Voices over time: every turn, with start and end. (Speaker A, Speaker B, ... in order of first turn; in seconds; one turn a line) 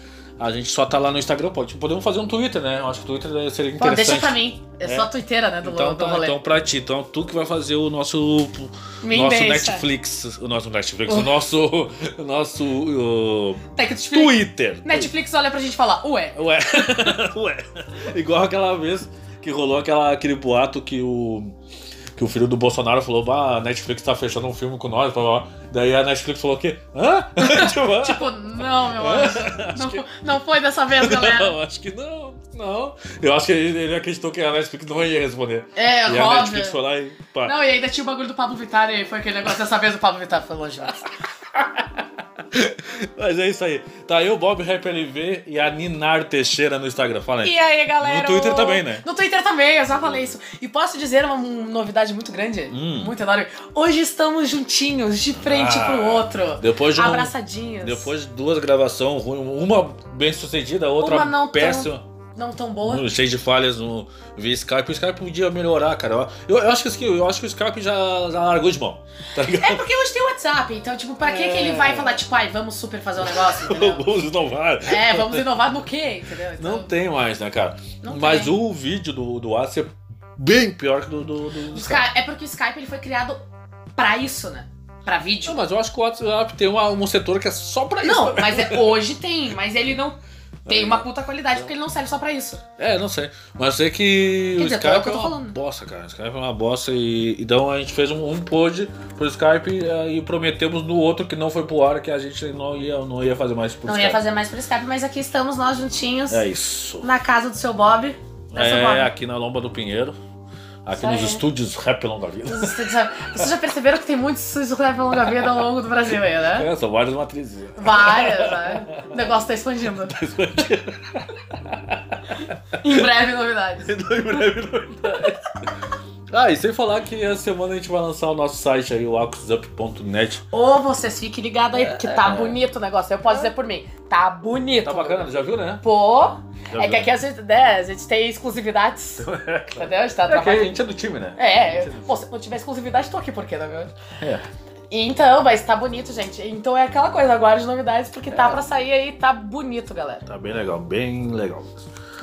Speaker A: 0.4-5.1
Speaker B: 3.8-6.3
Speaker A: 5.6-15.1
Speaker B: 9.0-9.8
Speaker B: 13.7-16.4
Speaker A: 16.3-21.6
Speaker A: 22.1-30.1
Speaker B: 27.4-31.5
Speaker A: 30.9-37.5
Speaker B: 35.8-36.8
Speaker B: 37.4-41.1
Speaker A: 41.5-49.0
Speaker B: 47.4-58.1
Speaker A: 52.7-53.1
Speaker A: 55.3-62.0
Speaker B: 61.0-63.1
Speaker A: 62.9-69.8
Speaker B: 69.5-74.1
Speaker A: 71.2-72.2
Speaker A: 73.2-75.5
Speaker B: 74.8-76.9
Speaker A: 76.6-82.1
Speaker B: 78.0-78.5
Speaker B: 81.7-83.4
Speaker B: 84.0-85.6
Speaker A: 85.4-88.9
Speaker B: 88.0-92.6
Speaker A: 90.7-91.0
Speaker A: 92.8-104.2
Speaker B: 94.5-95.5
Speaker B: 103.8-106.4
Speaker A: 106.3-107.1
Speaker B: 107.0-109.1
Speaker A: 108.5-110.2
Speaker A: 110.8-113.5
Speaker B: 110.9-111.4
Speaker B: 112.5-116.7
Speaker A: 115.1-115.7
Speaker A: 116.5-119.3
Speaker B: 117.8-120.2
Speaker A: 119.9-123.1
Speaker B: 122.8-123.9
Speaker A: 123.8-125.4
Speaker A: 126.3-130.4
Speaker B: 130.5-135.3
Speaker A: 131.7-132.6
Speaker A: 134.8-135.8
Speaker B: 135.8-140.7
Speaker A: 136.7-137.1
Speaker A: 139.2-142.2
Speaker B: 141.4-143.9
Speaker A: 144.2-144.4
Speaker B: 144.9-150.2
Speaker A: 148.3-148.6
Speaker A: 150.2-151.8